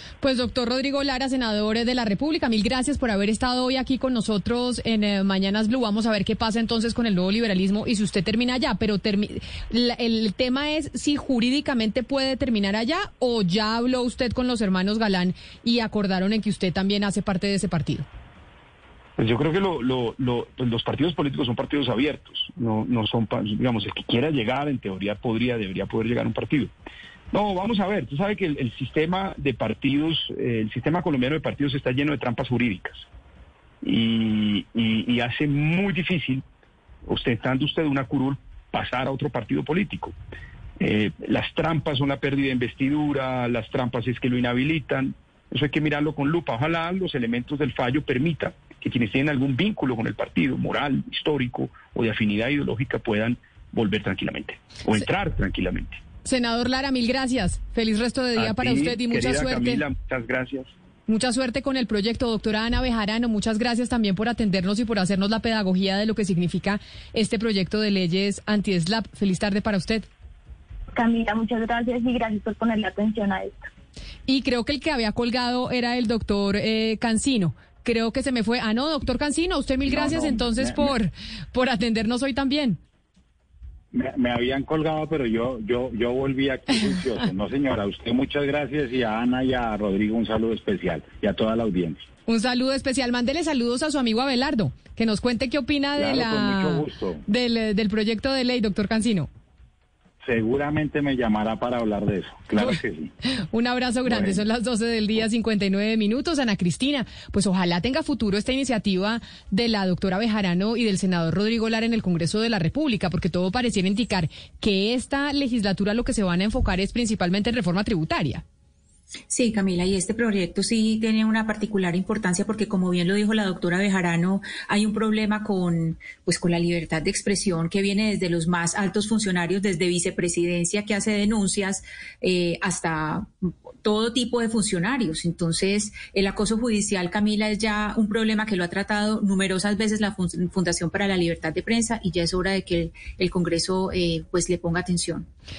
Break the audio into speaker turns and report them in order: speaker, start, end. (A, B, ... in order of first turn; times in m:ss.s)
0:00.2-0:18.1 A
0:19.2-0:26.7 B
0:27.3-0:33.1 B
0:33.8-0:36.4 B
0:37.1-0:40.2 B
0:40.8-0:56.0 B
0:56.2-0:59.8 A
0:58.4-1:00.7 B
1:01.1-1:10.1 A
1:10.9-1:13.7 C
1:14.3-1:22.8 A
1:19.9-1:20.9 D
1:23.9-1:32.0 D
1:32.3-1:39.3 A
1:36.0-1:37.2 D
1:40.2-1:43.1 D
1:43.4-1:58.4 A
1:44.1-1:44.4 D
1:59.3-2:13.3 E
2:13.8-2:25.3 E